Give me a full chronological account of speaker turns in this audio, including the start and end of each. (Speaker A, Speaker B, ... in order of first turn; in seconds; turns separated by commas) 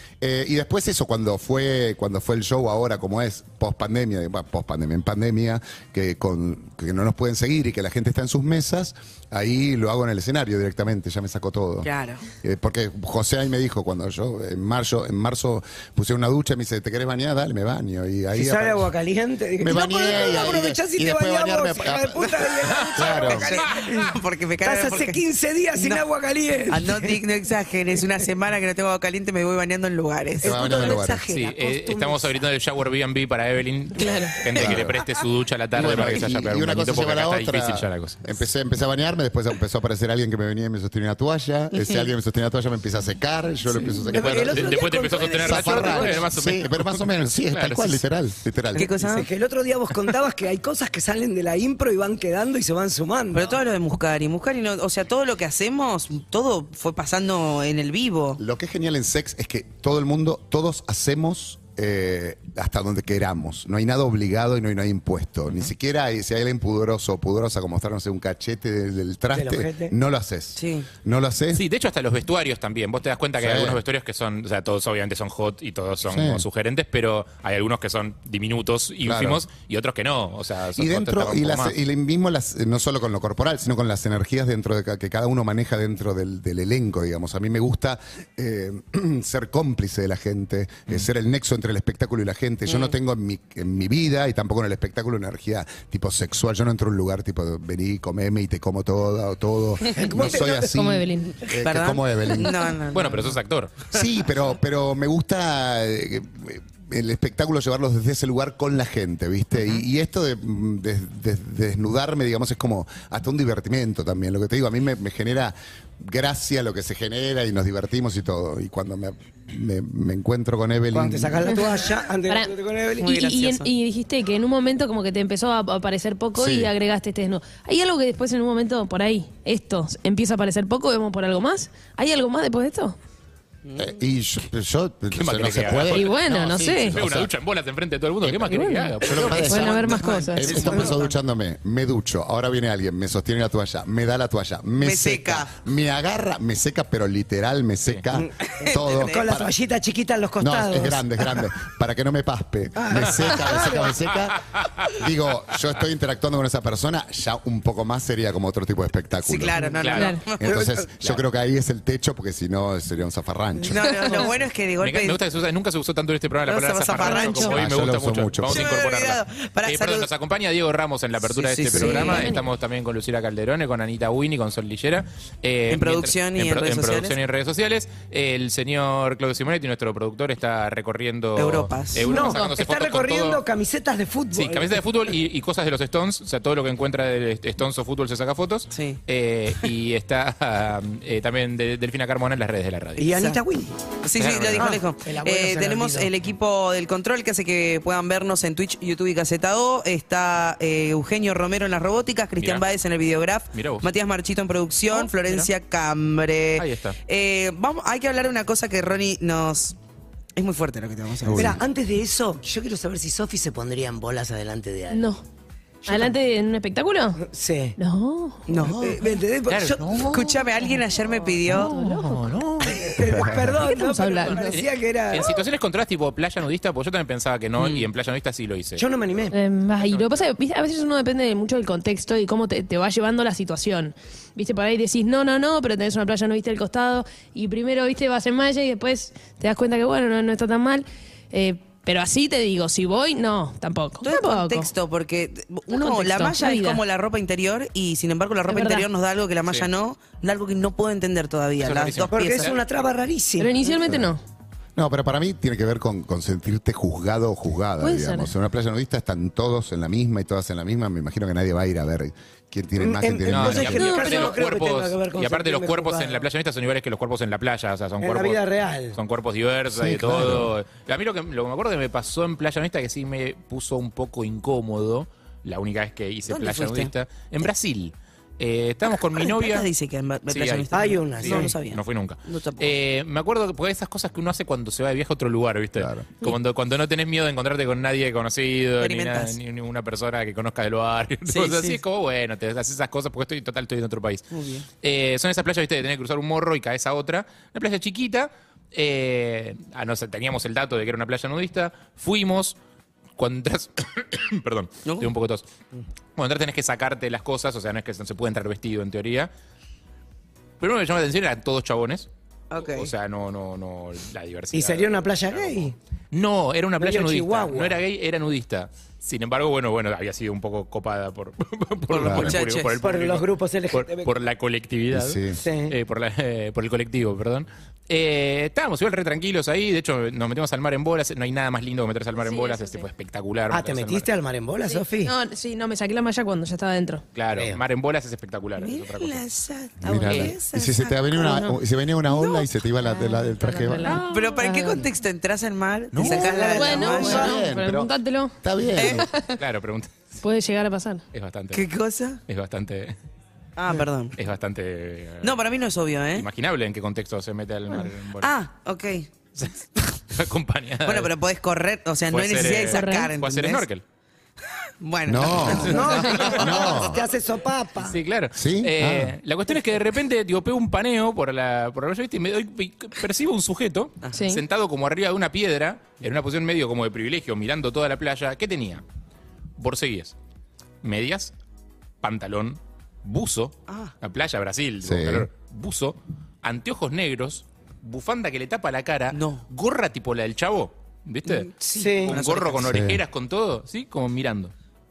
Speaker A: 0.2-11.9, Speaker B: 11.8-12.2, Speaker A: 12.4-18.9, Speaker C: 18.3-27.2, Speaker A: 19.6-23.5, Speaker B: 23.2-25.2, Speaker B: 25.8-26.0, Speaker B: 26.7-31.0, Speaker C: 30.4-32.4, Speaker A: 30.4-31.2, Speaker D: 31.3-38.2, Speaker E: 34.0-34.4, Speaker A: 34.6-35.0, Speaker A: 35.7-44.9, Speaker B: 41.7-42.1, Speaker C: 44.1-46.3, Speaker D: 44.1-48.0, Speaker A: 45.4-49.2, Speaker B: 48.8-49.3, Speaker C: 49.0-53.6, Speaker B: 53.3-58.4, Speaker A: 58.4-71.6, Speaker C: 69.3-69.9, Speaker B: 70.5-70.9, Speaker D: 71.5-81.7, Speaker A: 73.4-73.8, Speaker A: 76.0-76.5, Speaker A: 79.0-79.4, Speaker A: 80.8-102.6, Speaker B: 92.7-92.9, Speaker C: 100.0-100.7, Speaker E: 100.0-101.3, Speaker B: 101.6-103.4, Speaker D: 102.9-103.9, Speaker A: 103.9-121.5, Speaker C: 120.9-123.2, Speaker B: 123.0-123.7, Speaker E: 123.0-132.9, Speaker A: 126.3-126.7, Speaker B: 133.6-133.9, Speaker A: 133.8-137.3, Speaker D: 135.1-136.2, Speaker E: 135.9-137.0, Speaker D: 136.8-139.7, Speaker A: 138.2-149.5, Speaker E: 138.5-140.6, Speaker B: 139.1-141.1, Speaker B: 144.8-145.5, Speaker B: 148.6-149.3, Speaker C: 148.9-151.4, Speaker A: 150.4-159.6, Speaker C: 152.8-154.1, Speaker B: 159.2-160.7, Speaker D: 159.8-160.2, Speaker E: 159.9-160.2, Speaker A: 160.4-163.8, Speaker C: 160.4-160.8, Speaker B: 163.6-165.2, Speaker D: 164.8-183.4, Speaker B: 166.4-167.6, Speaker E: 167.0-167.5, Speaker A: 167.5-168.7, Speaker B: 168.4-170.1, Speaker B: 171.2-172.3, Speaker E: 171.8-172.4, Speaker B: 175.7-177.2, Speaker B: 181.3-182.1, Speaker E: 182.1-182.4, Speaker C: 182.1-184.8, Speaker D: 184.3-193.2, Speaker B: 188.7-189.0, Speaker C: 193.0-193.7, Speaker B: 194.0-209.8, Speaker D: 194.1-194.8, Speaker C: 194.5-196.1, Speaker D: 202.4-202.7, Speaker D: 203.5-203.9, Speaker D: 204.9-205.5, Speaker D: 206.6-206.9, Speaker B: 210.3-211.5, Speaker A: 211.2-211.6, Speaker C: 211.3-215.1, Speaker E: 214.9-215.2, Speaker C: 215.8-216.2, Speaker E: 215.9-217.2, Speaker C: 217.2-217.8, Speaker E: 217.8-218.5, Speaker B: 218.5-219.0, Speaker C: 218.5-220.1, Speaker D: 219.5-220.3, Speaker B: 220.0-221.7, Speaker D: 221.4-223.2, Speaker E: 221.4-222.4, Speaker C: 222.6-225.4, Speaker E: 223.6-224.6, Speaker D: 224.1-228.8, Speaker B: 227.6-227.9, Speaker C: 228.8-229.3, Speaker E: 229.3-244.7, Speaker D: 229.8-230.2, Speaker B: 244.0-252.5, Speaker E: 245.7-246.8, Speaker E: 248.5-248.9, Speaker D: 251.6-252.6, Speaker C: 252.1-253.6, Speaker E: 253.4-254.2, Speaker A: 253.9-254.1, Speaker A: 254.8-263.9, Speaker E: 257.8-258.3, Speaker C: 262.8-266.2, Speaker D: 263.3-268.4, Speaker E: 263.8-264.3, Speaker C: 268.0-269.0, Speaker D: 268.9-279.7, Speaker A: 269.7-270.5, Speaker B: 276.3-276.9, Speaker B: 279.2-282.8, Speaker D: 280.3-294.3, Speaker C: 280.7-281.6, Speaker A: 285.8-286.1, Speaker B: 288.8-289.4, Speaker B: 291.3-291.8, Speaker B: 294.3-294.6, Speaker D: 294.8-302.6, Speaker D: 303.2-305.4, Speaker B: 304.8-305.1, Speaker D: 306.2-309.3, Speaker D: 310.6-312.1, Speaker B: 312.5-312.9, Speaker D: 312.6-334.1, Speaker C: 314.5-315.7, Speaker C: 316.8-317.8, Speaker B: 321.9-322.7, Speaker A: 322.0-322.4, Speaker C: 322.8-324.1, Speaker A: 324.9-325.4, Speaker C: 325.4-325.7, Speaker E: 332.2-332.9, Speaker C: 333.5-335.1, Speaker E: 334.7-337.0, Speaker D: 337.1-339.2, Speaker C: 337.3-337.6, Speaker B: 338.6-341.5, Speaker A: 339.8-344.0, Speaker D: 339.9-340.3, Speaker B: 342.1-342.4, Speaker E: 342.8-344.8, Speaker B: 344.0-347.3, Speaker A: 345.9-349.1, Speaker C: 346.0-347.4, Speaker E: 346.5-349.4, Speaker B: 348.8-349.1, Speaker D: 349.4-349.9, Speaker E: 350.2-351.0, Speaker D: 351.1-351.6, Speaker B: 351.5-352.2, Speaker D: 352.3-352.9, Speaker B: 353.6-354.1, Speaker D: 354.2-355.4, Speaker B: 355.2-356.3, Speaker D: 356.1-358.3, Speaker B: 358.2-359.1, Speaker D: 359.4-361.1, Speaker B: 360.8-363.6, Speaker D: 362.1-363.8, Speaker E: 362.7-363.1, Speaker B: 364.8-366.8, Speaker A: 365.1-365.8, Speaker D: 365.3-366.6, Speaker C: 365.6-368.0, Speaker A: 366.3-367.0, Speaker D: 367.8-378.8, Speaker A: 368.3-369.1, Speaker E: 374.1-374.4, Speaker D: 379.6-380.1, Speaker D: 380.8-381.3, Speaker D: 382.0-394.5, Speaker B: 383.7-383.9, Speaker A: 384.8-385.3, Speaker B: 389.1-389.4, Speaker B: 391.3-392.7, Speaker C: 391.6-392.1, Speaker A: 392.6-393.0